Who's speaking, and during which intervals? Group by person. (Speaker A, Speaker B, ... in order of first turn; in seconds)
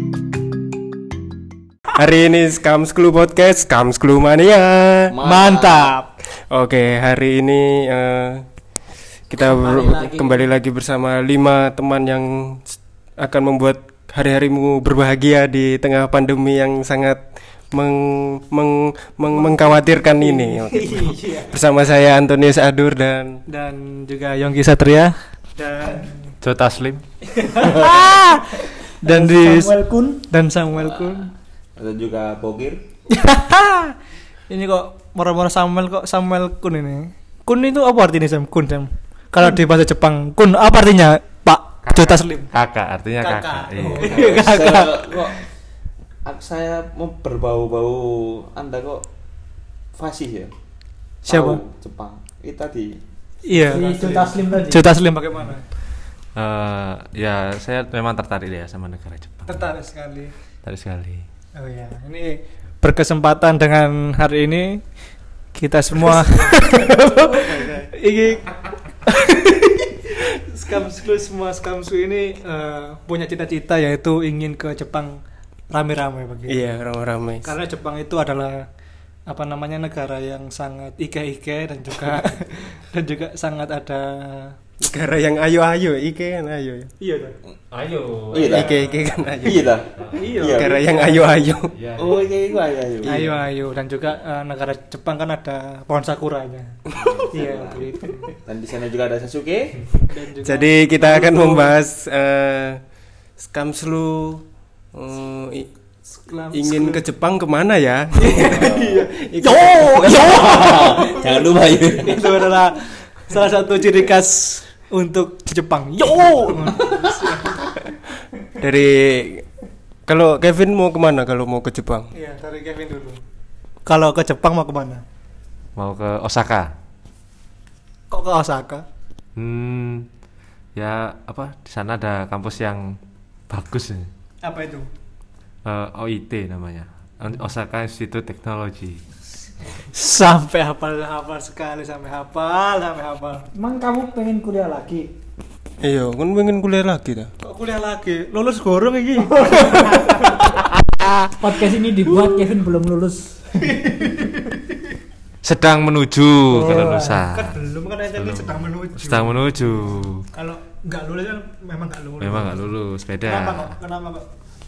Speaker A: 1.9-5.2, 6.4-8.4, 9.3-23.4, 43.8-44.0, 76.5-77.5, 84.8-86.9, 88.5-89.7, 90.5-91.7, 93.0-93.3, 100.4-102.8, 103.4-104.4, 104.9-105.7, 106.5-108.6, 109.2-110.9, 118.6-119.5, 120.1-122.1, 145.8-147.3
Speaker B: 5.1-5.9, 27.6-28.0, 30.7-31.2, 31.8-32.8, 44.2-45.5, 46.3-49.0, 50.0-50.5, 51.3-53.0, 88.3-88.7, 89.4-90.8, 92.0-93.2, 97.0-97.9, 98.5-99.7, 108.5-109.0, 110.2-112.4
Speaker C: 5.3-6.1, 23.5-26.3, 27.5-29.7, 30.3-31.3, 33.1-34.0, 34.5-42.5, 43.2-45.4, 51.2-51.6, 53.5-55.6, 59.5-60.3, 61.5-64.9, 65.5-68.5, 69.1-75.2, 75.7-76.6, 77.4-78.7, 79.3-84.5, 87.0-87.3, 90.2-91.3, 93.1-96.7, 97.3-98.3, 100.1-101.8, 106.1-107.0, 108.2-110.3, 110.9-117.8, 122.2-123.2, 123.9-125.0, 128.1-128.8, 134.4-134.9, 139.9-143.4, 147.4-150.5, 153.7-154.8, 156.7-164.3
Speaker D: 9.4-10.4, 29.0-30.2, 53.7-54.8, 143.5-145.1, 149.5-150.0, 151.4-153.6, 156.5-157.2
Speaker E: 26.4-27.0, 41.8-44.3, 56.4-59.7, 60.6-61.2, 87.7-88.6, 90.0-90.3, 91.7-92.3, 125.8-126.7, 129.4-130.1, 130.8-132.8, 133.5-134.1, 135.7-139.0, 155.4-157.6, 158.1-160.2, 162.2-163.7